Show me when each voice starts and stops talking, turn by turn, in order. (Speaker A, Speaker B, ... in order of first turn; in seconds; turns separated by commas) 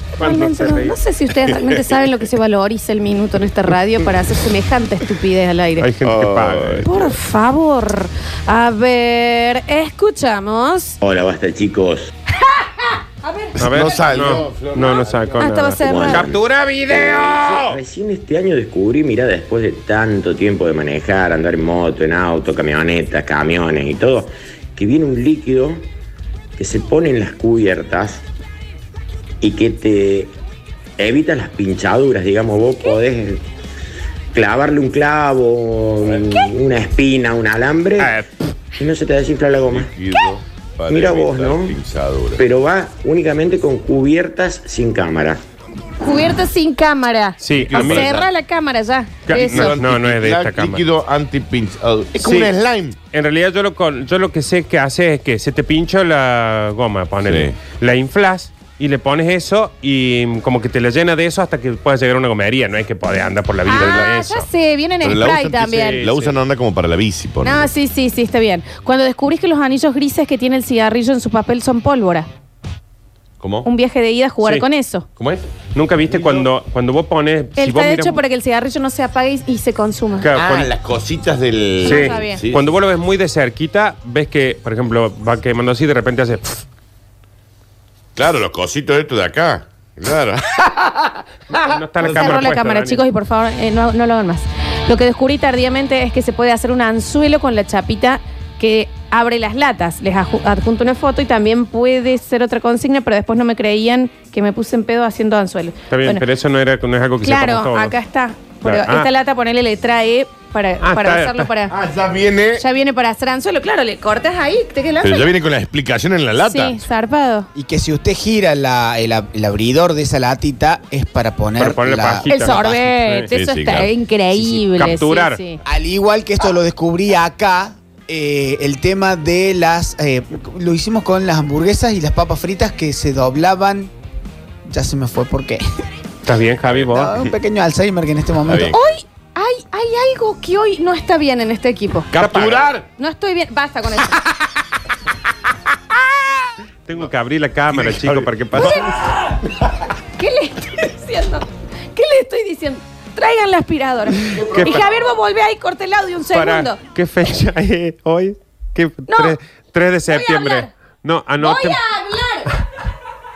Speaker A: 0.2-0.9, Speaker B: 0.2-5.9, Speaker A: 5.8-7.1, Speaker C: 6.0-7.1, Speaker B: 6.9-11.0, Speaker D: 11.0-12.1, Speaker B: 12.5-13.6, Speaker C: 13.6-15.5, Speaker A: 13.6-17.8, Speaker B: 15.4-16.3, Speaker D: 15.8-16.4, Speaker D: 16.9-25.8, Speaker D: 26.6-28.2, Speaker D: 29.4-30.3, Speaker D: 31.0-33.4, Speaker D: 34.3-38.1, Speaker A: 38.0-38.3, Speaker D: 38.8-39.9, Speaker C: 39.6-42.5, Speaker D: 40.9-41.8, Speaker D: 42.4-45.4, Speaker B: 46.0-49.8, Speaker A: 47.4-48.1, Speaker C: 47.5-48.3, Speaker A: 49.3-50.9, Speaker C: 49.3-53.0, Speaker A: 52.2-52.5, Speaker A: 53.1-64.5, Speaker C: 57.2-57.5, Speaker B: 63.7-66.0, Speaker C: 63.7-64.1, Speaker C: 65.0-67.7, Speaker A: 65.8-66.3, Speaker B: 67.4-72.3, Speaker C: 73.4-73.7, Speaker B: 73.7-75.1, Speaker A: 75.7-78.2, Speaker C: 76.1-76.5, Speaker B: 77.6-80.3, Speaker A: 80.2-80.7, Speaker C: 80.4-82.7, Speaker B: 81.8-82.4, Speaker A: 81.8-86.6, Speaker C: 88.2-90.9, Speaker A: 91.7-93.0, Speaker B: 92.0-106.2, Speaker A: 105.9-108.0, Speaker B: 107.2-111.8, Speaker A: 108.7-109.1, Speaker A: 110.8-111.5, Speaker C: 111.7-112.6, Speaker B: 112.6-115.3, Speaker C: 115.0-116.8, Speaker B: 116.4-117.5, Speaker E: 117.6-122.7, Speaker A: 121.6-123.3, Speaker B: 122.3-125.6, Speaker C: 123.3-123.9, Speaker E: 124.3-124.7, Speaker A: 124.8-125.4, Speaker E: 125.7-133.9, Speaker E: 134.7-135.6, Speaker A: 136.2-137.1, Speaker C: 136.7-137.3, Speaker E: 137.1-138.8, Speaker C: 138.4-138.8, Speaker B: 138.7-142.1, Speaker C: 142.1-142.8, Speaker A: 142.2-142.7, Speaker B: 143.0-144.3, Speaker A: 146.9-148.8, Speaker C: 147.7-148.9, Speaker B: 150.2-156.8, Speaker C: 154.3-154.9, Speaker A: 154.5-154.9, Speaker A: 156.3-161.8, Speaker B: 159.1-159.4, Speaker B: 160.1-160.7, Speaker B: 161.4-162.5